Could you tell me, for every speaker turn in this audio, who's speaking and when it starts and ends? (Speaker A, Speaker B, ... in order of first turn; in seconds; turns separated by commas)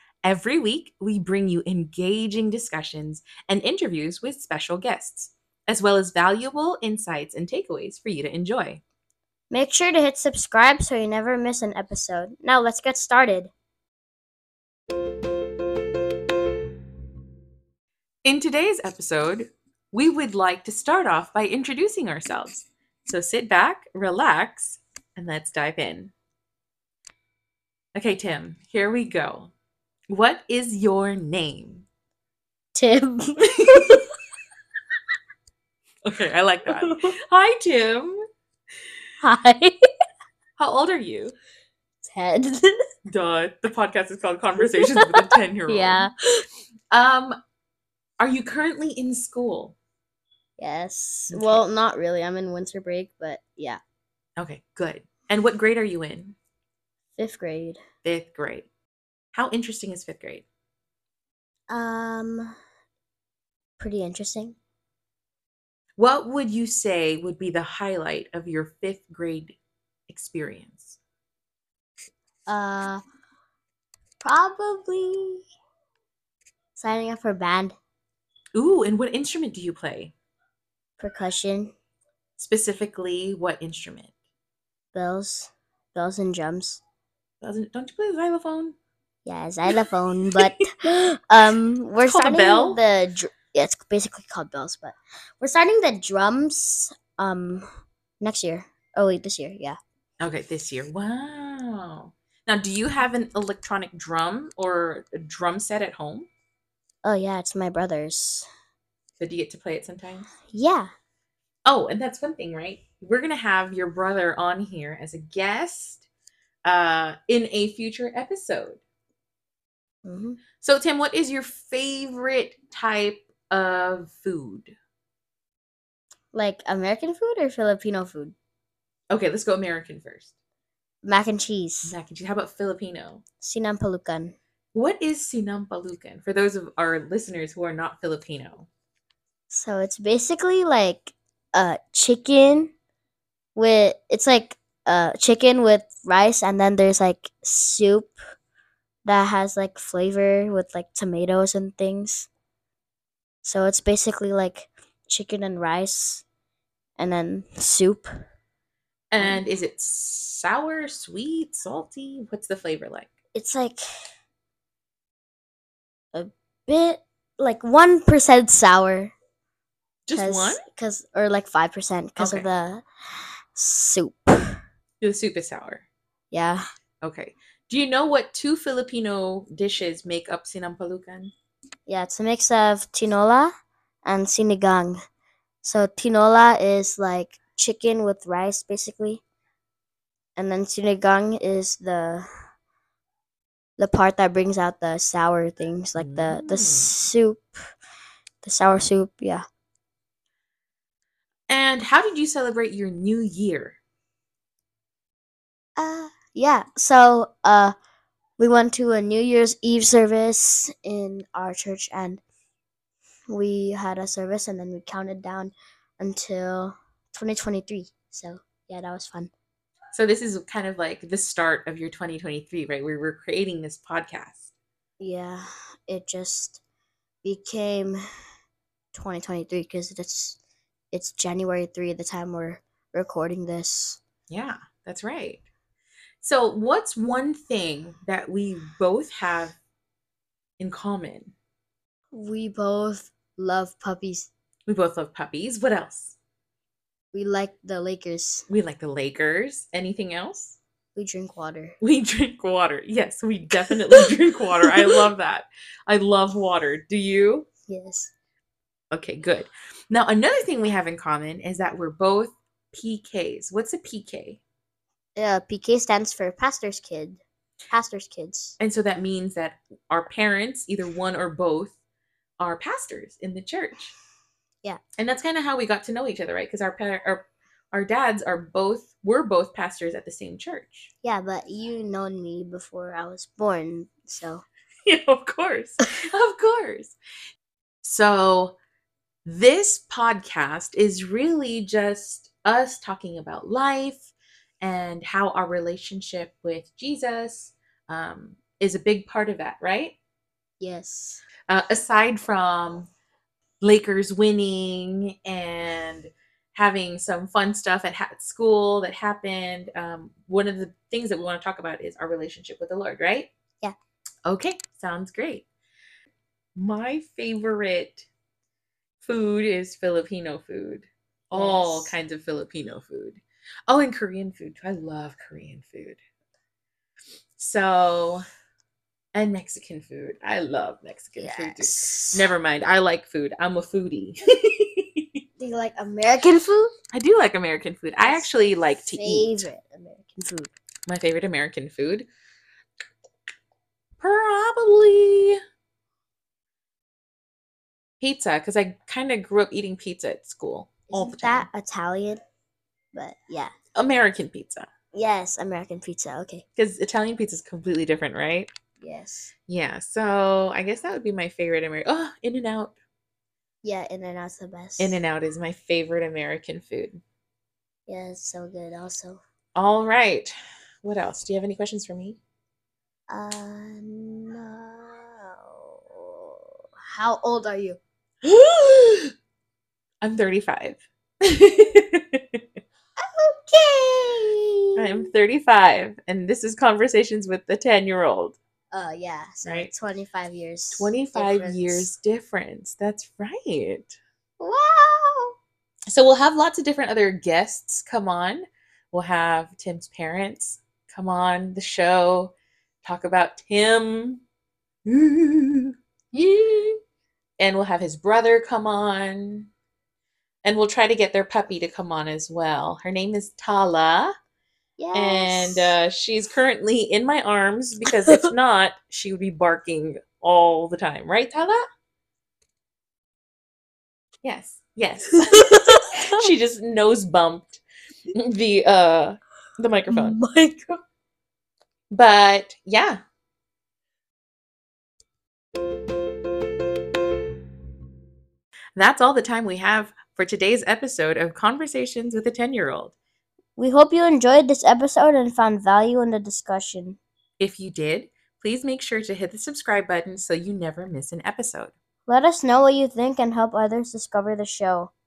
Speaker A: 0.2-8.8, Speaker B: 9.5-13.5, Speaker A: 18.2-26.1, Speaker A: 27.9-29.5, Speaker A: 30.1-31.9, Speaker B: 32.7-34.0, Speaker A: 36.0-38.2, Speaker B: 36.8-37.1, Speaker B: 39.2-39.8, Speaker A: 40.6-41.4, Speaker B: 42.0-42.7, Speaker A: 43.1-46.1, Speaker B: 44.8-46.1, Speaker A: 46.9-47.4, Speaker A: 48.2-49.8, Speaker B: 50.6-53.8, Speaker A: 51.3-51.6, Speaker A: 54.4-56.4, Speaker B: 57.2-57.8, Speaker A: 58.0-58.7, Speaker A: 59.3-60.5, Speaker B: 61.7-62.5, Speaker B: 63.8-64.6, Speaker A: 66.0-69.6, Speaker A: 70.1-71.0, Speaker B: 72.5-73.0, Speaker B: 74.2-75.4, Speaker B: 76.8-77.8, Speaker A: 78.5-80.1, Speaker B: 81.0-81.7, Speaker A: 82.4-84.1, Speaker B: 84.9-86.8, Speaker A: 87.4-88.8, Speaker B: 89.2-97.7, Speaker A: 92.1-92.8, Speaker B: 98.2-99.8, Speaker A: 100.2-106.3, Speaker B: 107.0-108.5, Speaker A: 109.2-110.3, Speaker B: 110.5-110.9, Speaker A: 111.7-116.1, Speaker A: 116.7-118.8, Speaker B: 120.0-120.4, Speaker A: 120.6-124.8, Speaker B: 126.3-128.3, Speaker A: 129.1-130.3, Speaker B: 131.0-131.9, Speaker A: 131.8-133.2, Speaker B: 133.4-134.4, Speaker A: 134.7-138.7, Speaker B: 139.5-142.7, Speaker B: 143.6-148.2, Speaker B: 149.1-152.3, Speaker B: 153.4-156.2, Speaker B: 157.0-158.1, Speaker A: 159.1-163.1, Speaker B: 163.3-163.8, Speaker B: 166.1-169.1, Speaker A: 170.1-170.7, Speaker B: 170.1-172.8, Speaker A: 172.2-172.5, Speaker B: 173.5-174.6, Speaker A: 175.0-175.9, Speaker B: 176.3-176.6, Speaker A: 177.0-181.3, Speaker B: 181.9-183.5, Speaker B: 184.0-185.0, Speaker B: 185.6-189.2, Speaker B: 190.4-192.3, Speaker B: 193.8-197.6, Speaker A: 196.0-196.9, Speaker B: 198.4-199.4, Speaker A: 201.5-203.8, Speaker B: 205.8-207.7, Speaker B: 208.4-212.2, Speaker B: 213.3-219.3, Speaker A: 219.9-224.5, Speaker B: 225.0-226.6, Speaker B: 227.2-228.0, Speaker B: 228.9-230.4, Speaker B: 230.9-234.0, Speaker A: 234.3-235.4, Speaker A: 236.2-239.6, Speaker A: 240.6-241.3, Speaker B: 242.1-244.3, Speaker A: 244.7-246.2, Speaker B: 247.1-248.4, Speaker A: 248.5-250.6, Speaker B: 250.9-251.8, Speaker A: 251.8-257.5, Speaker B: 257.7-258.1, Speaker A: 258.9-264.4, Speaker B: 265.2-268.6, Speaker A: 268.6-271.8, Speaker A: 272.4-273.9, Speaker A: 275.0-280.9, Speaker B: 281.0-284.4, Speaker A: 284.9-287.0, Speaker A: 287.8-288.6, Speaker A: 289.2-294.1, Speaker A: 294.6-300.0, Speaker B: 300.6-301.2, Speaker A: 301.5-302.9, Speaker A: 303.6-313.3, Speaker A: 314.3-315.5, Speaker A: 316.6-318.1, Speaker A: 319.0-326.0, Speaker B: 321.3-321.9, Speaker A: 327.4-328.2, Speaker A: 329.1-335.2, Speaker B: 331.2-332.3, Speaker B: 335.4-336.7, Speaker A: 336.9-339.5, Speaker B: 338.0-338.3, Speaker B: 338.9-340.5, Speaker A: 340.9-342.1, Speaker A: 344.0-345.4, Speaker A: 348.0-351.5, Speaker B: 350.9-352.2, Speaker B: 352.9-353.5, Speaker A: 353.8-354.7, Speaker B: 354.9-356.4, Speaker A: 356.6-358.5, Speaker B: 358.8-359.3, Speaker A: 359.5-362.8, Speaker B: 363.6-365.0, Speaker A: 364.8-367.0, Speaker B: 367.9-369.2, Speaker A: 369.6-370.3, Speaker A: 370.8-372.2, Speaker B: 373.1-376.4, Speaker B: 376.9-377.8, Speaker A: 378.2-379.1, Speaker A: 380.0-382.4, Speaker B: 383.0-385.1, Speaker A: 384.8-388.4, Speaker B: 388.7-391.9, Speaker A: 389.4-389.7, Speaker A: 390.7-394.0, Speaker B: 394.4-395.3, Speaker A: 395.9-404.2, Speaker A: 404.9-405.7, Speaker B: 406.1-406.8, Speaker A: 407.4-409.5, Speaker A: 410.4-414.1, Speaker B: 414.8-415.8, Speaker A: 414.9-421.6, Speaker A: 424.2-427.6, Speaker B: 425.3-425.9, Speaker A: 428.1-430.2, Speaker B: 429.9-430.8, Speaker A: 431.9-433.0, Speaker A: 438.8-443.0, Speaker B: 443.6-447.0, Speaker A: 447.4-451.8, Speaker B: 452.1-454.9